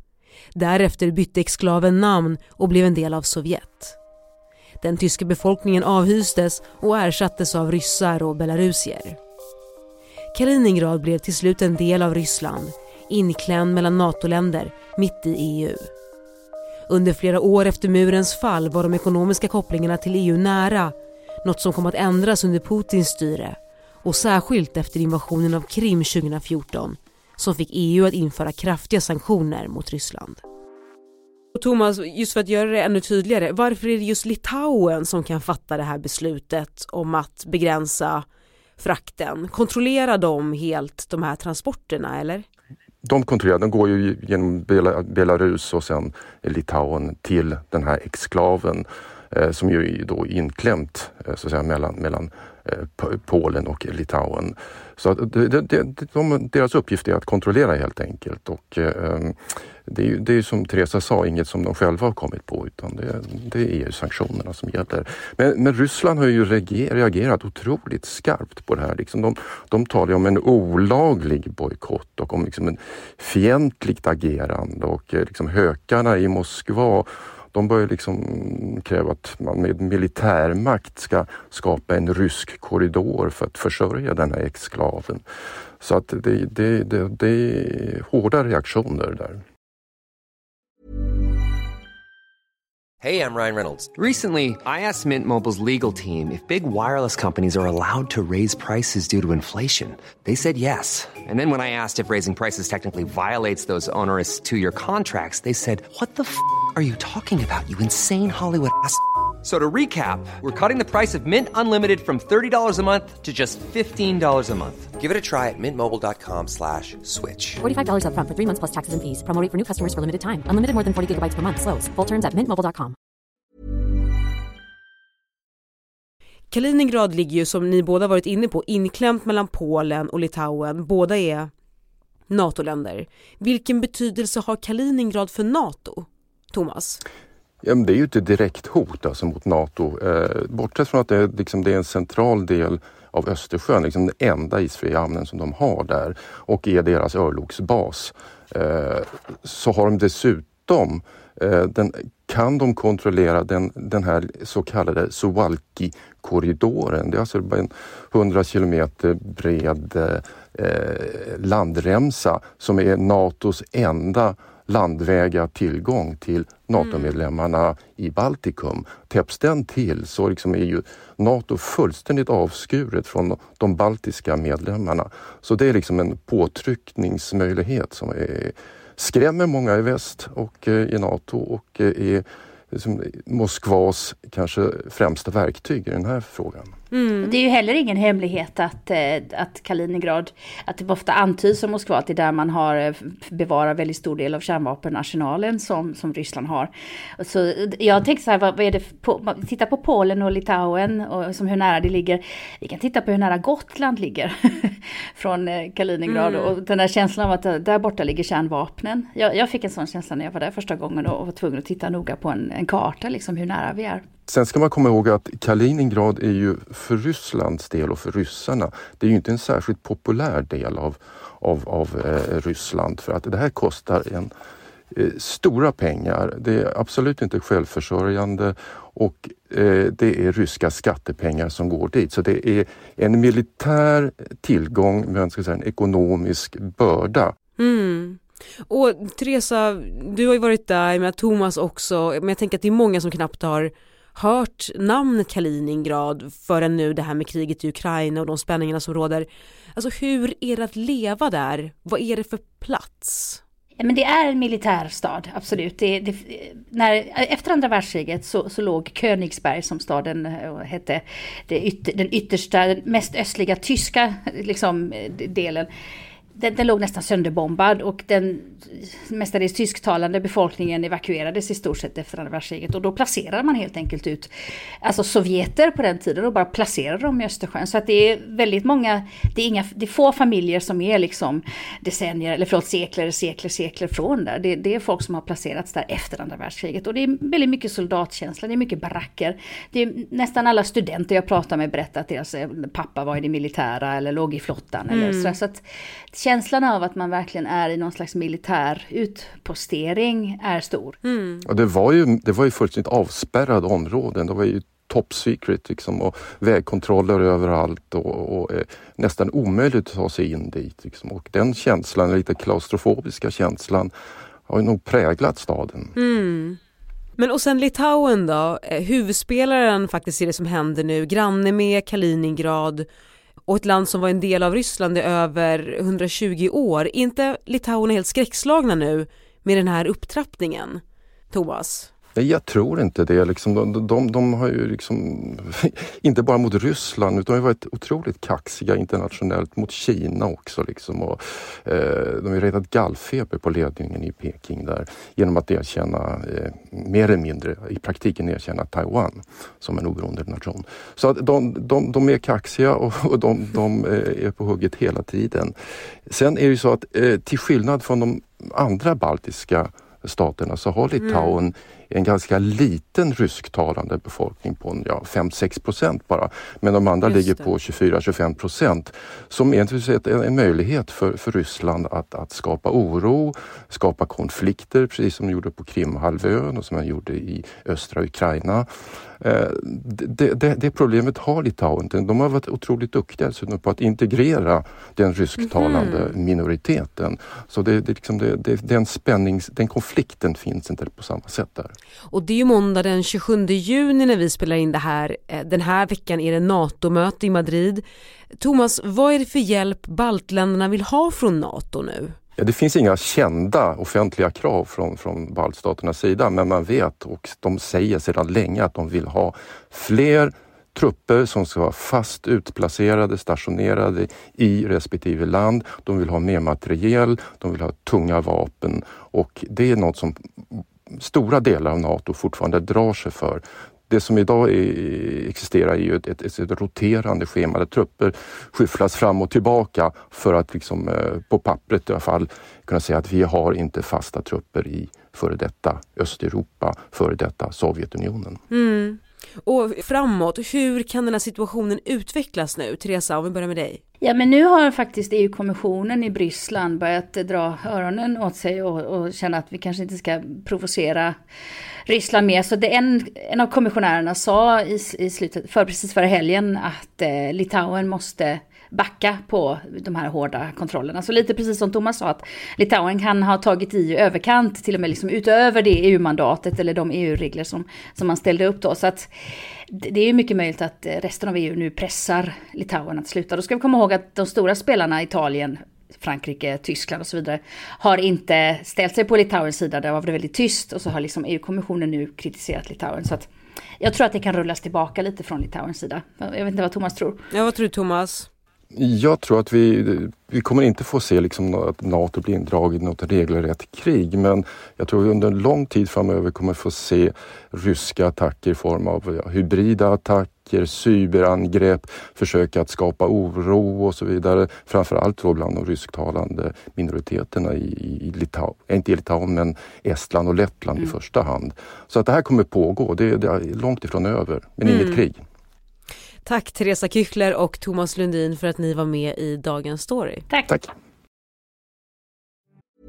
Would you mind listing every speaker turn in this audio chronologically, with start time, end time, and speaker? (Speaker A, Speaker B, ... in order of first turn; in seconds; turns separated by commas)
Speaker A: 0.6-4.0, Speaker A: 4.8-9.2, Speaker A: 10.3-15.9, Speaker A: 16.9-30.4, Speaker A: 31.5-38.3, Speaker A: 38.8-42.5, Speaker B: 43.0-59.4, Speaker B: 59.9-85.2, Speaker B: 85.8-89.4, Speaker C: 93.0-117.6, Speaker D: 117.7-122.9, Speaker A: 126.5-131.5, Speaker A: 132.3-137.0, Speaker B: 137.6-186.7, Speaker A: 166.8-167.2, Speaker A: 186.9-187.3, Speaker E: 187.2-214.0, Speaker A: 206.1-206.5, Speaker B: 214.3-224.3, Speaker B: 224.9-237.3, Speaker A: 237.6-253.4, Speaker E: 253.8-265.7, Speaker E: 266.4-274.3, Speaker E: 274.8-301.0, Speaker A: 294.9-295.4, Speaker A: 301.0-301.4, Speaker B: 301.4-313.9, Speaker B: 314.5-315.9, Speaker A: 315.9-316.6, Speaker A: 317.2-322.9, Speaker A: 323.5-331.9, Speaker B: 332.1-355.5, Speaker B: 356.1-378.7, Speaker A: 361.0-361.4, Speaker A: 367.0-367.6, Speaker B: 379.2-391.7, Speaker A: 385.4-386.2, Speaker A: 392.1-402.1, Speaker B: 402.4-438.4, Speaker A: 438.5-443.8, Speaker E: 444.0-451.1, Speaker E: 451.9-469.1, Speaker E: 469.7-487.2, Speaker A: 487.3-488.3, Speaker B: 488.7-515.2, Speaker A: 514.6-515.0, Speaker A: 516.2-520.3